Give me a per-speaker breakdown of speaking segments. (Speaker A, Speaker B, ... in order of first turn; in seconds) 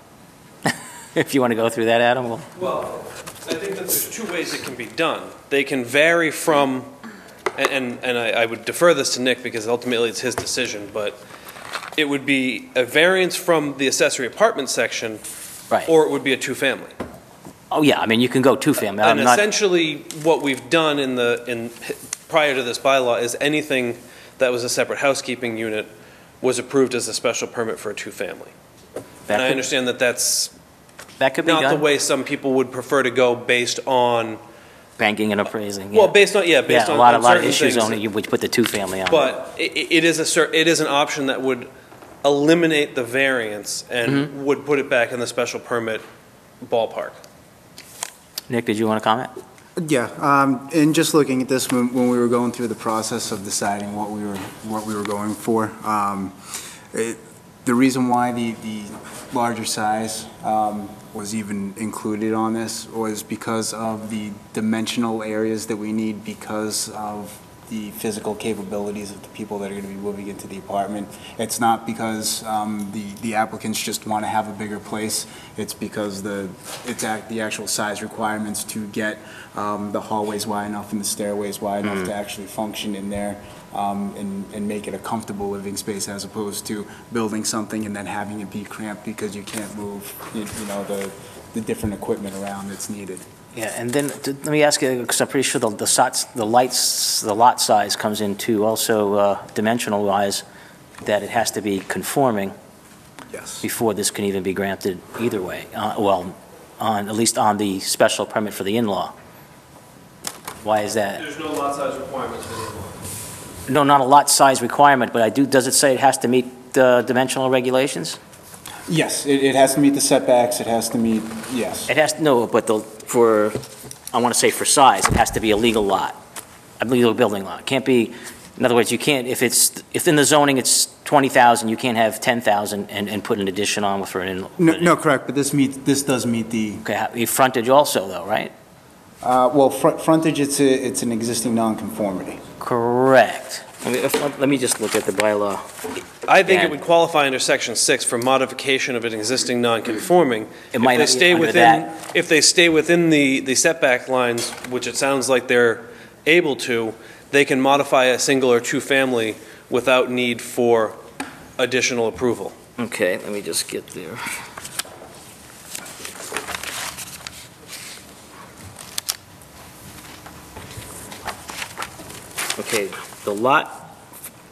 Speaker A: 0.7-2.5, 17.7-19.4, 29.3-29.6, 31.2-31.9, 35.0-36.1, 36.7-39.3, 48.5-49.3, 93.5-100.4, 101.0-102.5, 103.6-109.1, 110.6-111.2, 113.7-118.2, 121.9-123.6, 124.1-126.2, 126.8-134.9, 136.8-138.5, 142.6-145.7, 146.4-146.7, 150.7-151.9, 162.8-164.2, 172.6-173.9
Speaker B: 2.5-6.9, 7.5-11.2, 12.0-15.2, 15.9-16.9, 19.0-25.9, 26.4-28.5, 29.3-30.5, 31.4-34.4, 35.9-38.0, 39.1-41.7, 42.2-46.0, 46.6-47.2, 111.2-113.0, 146.3-161.0, 161.6-162.5
Speaker C: 49.8-56.4, 56.9-93.2, 103.3-103.7, 118.9-121.9, 134.6-136.8, 139.2-142.4